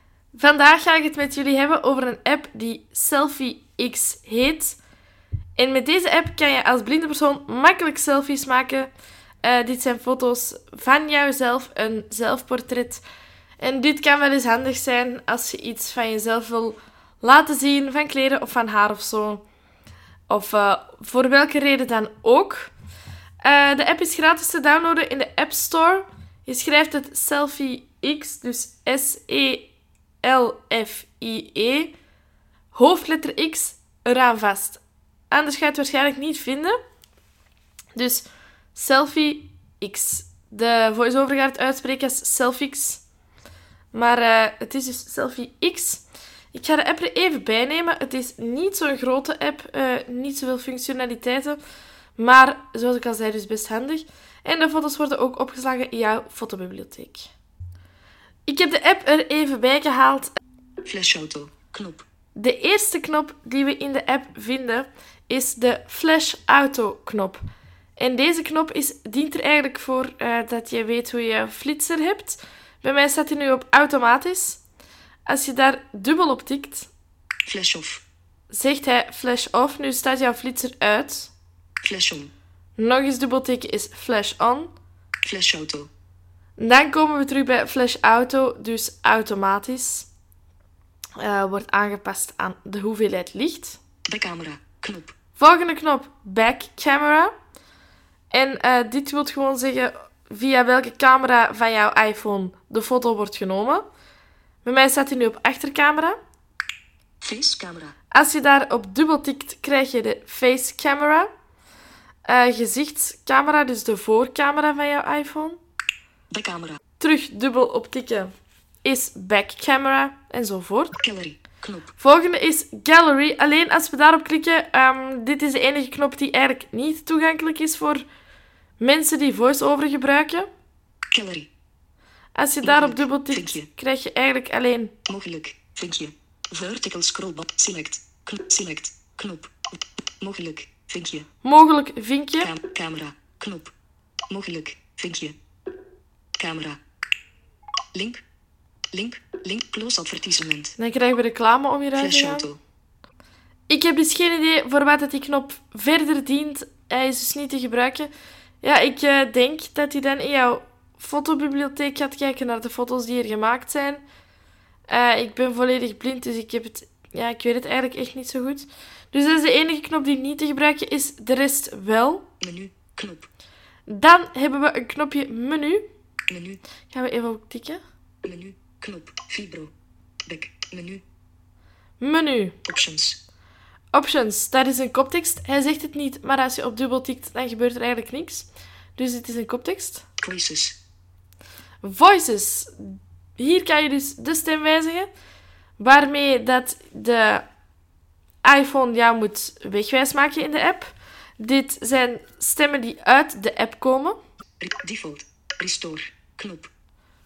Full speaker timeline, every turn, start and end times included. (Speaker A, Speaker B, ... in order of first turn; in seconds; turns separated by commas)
Speaker A: 0.3-4.8, Speaker A: 5.6-8.9, Speaker A: 9.4-13.0, Speaker A: 13.6-19.4, Speaker A: 20.3-22.7, Speaker A: 23.4-29.7, Speaker A: 30.2-31.9, Speaker A: 32.7-36.8, Speaker A: 38.0-43.0, Speaker A: 43.9-51.6, Speaker A: 52.2-57.3, Speaker A: 58.5-60.3, Speaker B: 60.8-62.1, Speaker A: 62.4-67.4, Speaker A: 68.0-74.6, Speaker A: 75.3-76.9, Speaker B: 77.5-78.0, Speaker A: 78.5-81.3, Speaker B: 81.8-82.3, Speaker A: 82.8-84.7, Speaker B: 85.2-85.9, Speaker A: 86.6-90.1, Speaker A: 91.2-93.8, Speaker B: 94.1-95.2, Speaker A: 95.4-97.3, Speaker A: 98.3-103.8, Speaker A: 104.6-106.2, Speaker B: 107.2-108.0, Speaker A: 108.1-111.3, Speaker A: 112.3-115.6, Speaker B: 116.3-116.8, Speaker A: 117.0-118.3, Speaker A: 118.8-121.0, Speaker B: 121.0-121.9, Speaker A: 122.0-128.0, Speaker A: 128.8-130.5, Speaker B: 131.1-131.5, Speaker A: 132.3-134.9, Speaker B: 132.6-133.7, Speaker B: 135.1-141.3, Speaker A: 141.4-142.5, Speaker B: 142.4-143.7, Speaker B: 144.3-145.3, Speaker B: 146.4-146.8, Speaker B: 147.9-148.2, Speaker B: 148.9-150.8, Speaker A: 150.8-152.5, Speaker B: 152.0-152.6, Speaker A: 153.7-158.1, Speaker A: 158.6-164.0, Speaker A: 164.9-172.3, Speaker B: 172.4-173.3, Speaker A: 173.9-175.9, Speaker B: 176.3-176.6, Speaker A: 176.9-177.8, Speaker B: 178.2-179.7, Speaker B: 180.3-181.0, Speaker A: 182.0-182.6, Speaker B: 182.7-183.2, Speaker A: 183.9-190.1, Speaker B: 190.2-190.8, Speaker A: 191.8-195.1, Speaker A: 195.8-197.5, Speaker A: 198.4-204.2, Speaker B: 204.6-206.7